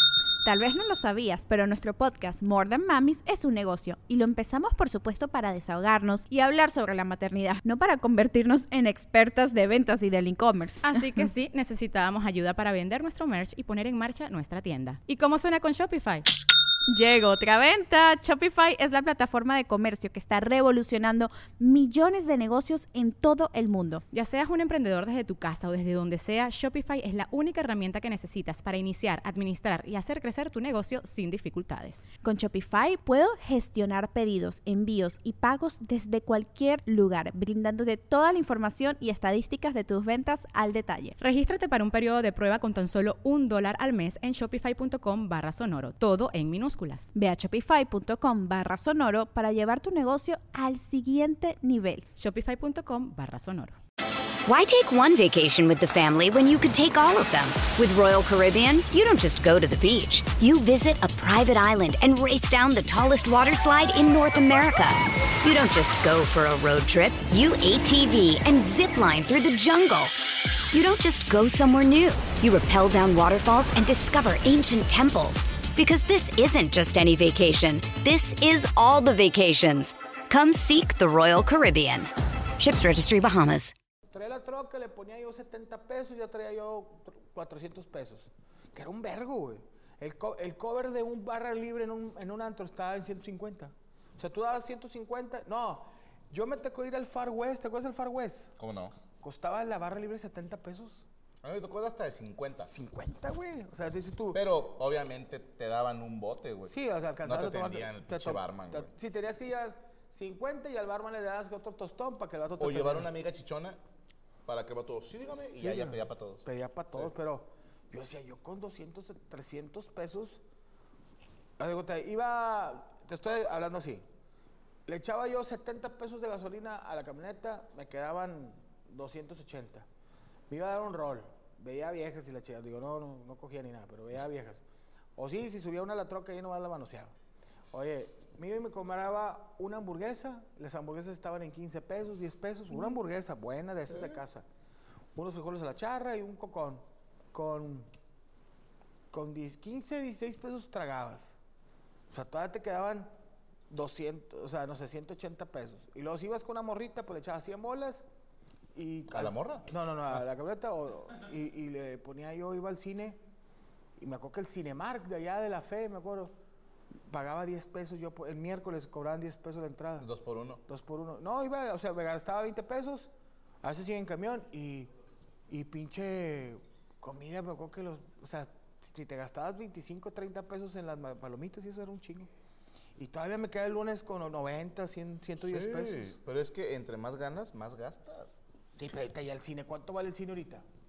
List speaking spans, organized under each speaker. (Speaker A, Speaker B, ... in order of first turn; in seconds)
Speaker A: 0.4-11.0, 16.9-24.0, 32.2-41.1, 47.1-52.0
Speaker B: 10.8-16.3, 24.1-32.1, 41.2-47.1, 52.2-53.8
Speaker C: 54.4-83.7
Speaker D: 84.1-98.5, 99.2-101.0, 102.7-104.4, 106.7-113.1, 115.5-120.4, 121.6-124.0, 124.9-129.9, 130.5-134.6, 135.2-137.2, 137.7-144.4, 145.1-147.9, 149.1-151.4, 152.1-153.1, 153.7-158.0, 158.7-163.2, 164.0-166.3, 167.1-170.1, 170.7-173.1, 173.6-174.9, 175.5-182.3, 183.0-186.1, 188.7-190.7
Speaker E: 98.6-99.0, 101.4-102.7, 104.3-108.9, 112.6-113.8, 114.5-117.1, 143.9-144.2, 159.1-159.7, 170.0-170.6, 185.4-188.4